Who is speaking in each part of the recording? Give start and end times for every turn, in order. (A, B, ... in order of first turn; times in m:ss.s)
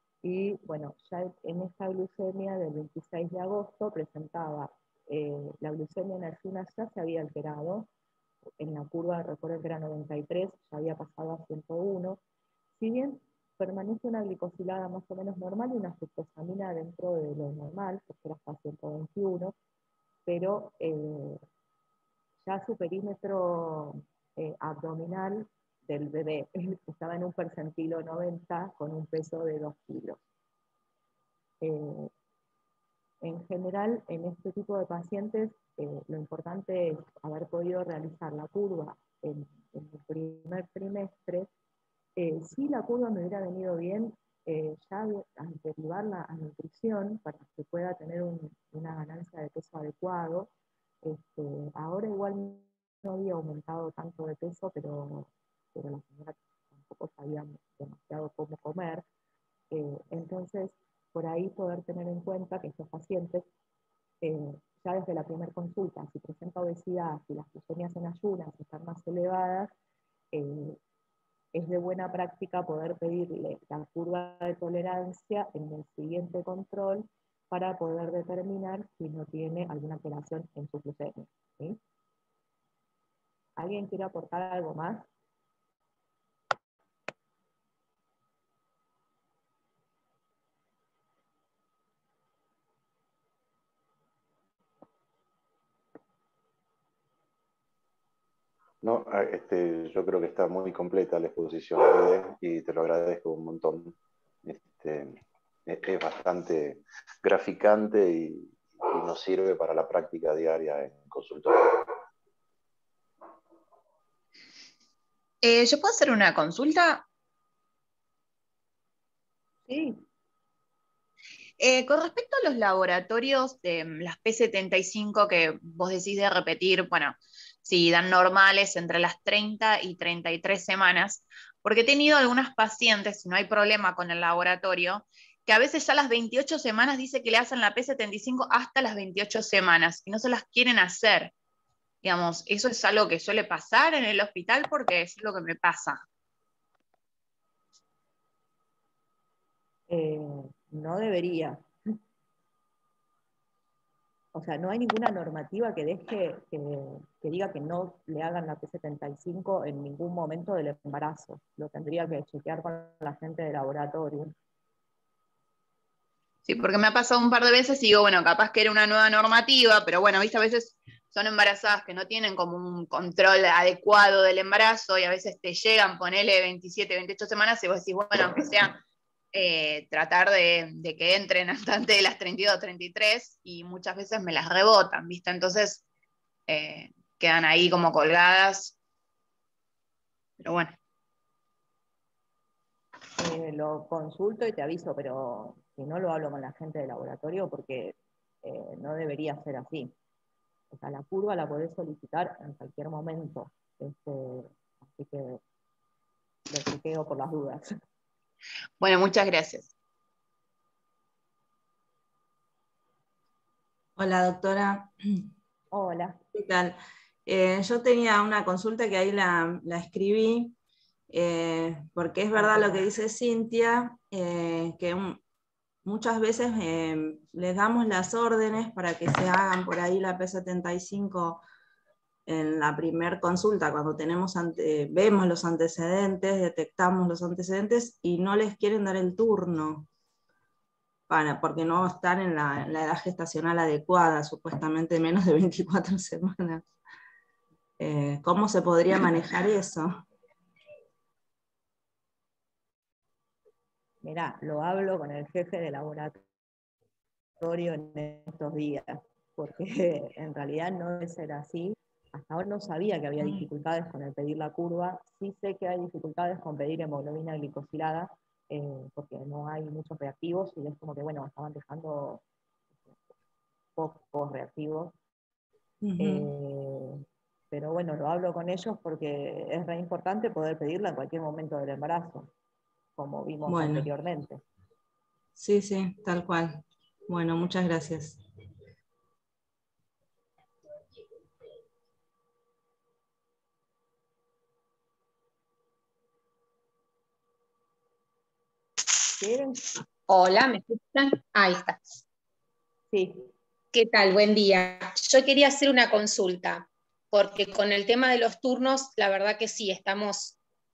0:00.2-0:07.9 A
0:08.6-0:12.2 A
0:12.8-0:19.5 A
0:20.2-0:21.4 A
0:22.4-0:30.2 A
0:31.6-0:32.1 A
0:33.2-0:41.5 A
0:42.2-0:50.5 A
0:51.0-0:59.0 A
0:59.7-1:03.4 A
1:04.2-1:09.7 A
1:10.3-1:10.8 A
1:11.5-1:21.8 A
1:23.6-1:25.1 A
1:38.8-1:51.9 B
1:55.4-1:57.0 C
1:59.7-2:00.0 A
2:01.6-2:21.3 C
2:22.0-2:26.0 C
2:29.9-2:31.6 A
2:34.3-2:44.3 A
2:46.4-2:58.8 C
2:59.3-3:05.8 C
3:06.5-3:08.7 C
3:10.4-3:10.7 C
3:13.2-3:19.9 A
3:20.7-3:25.4 A
3:26.5-3:27.7 A
3:28.8-3:29.7 C
3:34.0-3:35.3 D
3:35.7-3:36.2 A
3:36.3-3:40.6 D
3:41.1-3:45.2 D
3:42.4-3:42.8 A
3:45.8-3:51.4 D
3:52.2-3:59.9 D
4:01.1-4:06.7 D
4:07.8-4:10.0 D
4:14.0-4:16.2 A
4:17.4-4:32.2 A
4:33.8-4:34.9 A
4:35.8-4:36.3 D
4:36.0-4:42.3 A
4:43.0-4:44.4 A
4:43.5-4:43.9 D
4:45.4-4:48.2 D
4:59.2-4:59.6 A
5:00.1-5:01.8 E
5:02.9-5:03.3 A
5:03.7-5:10.4 E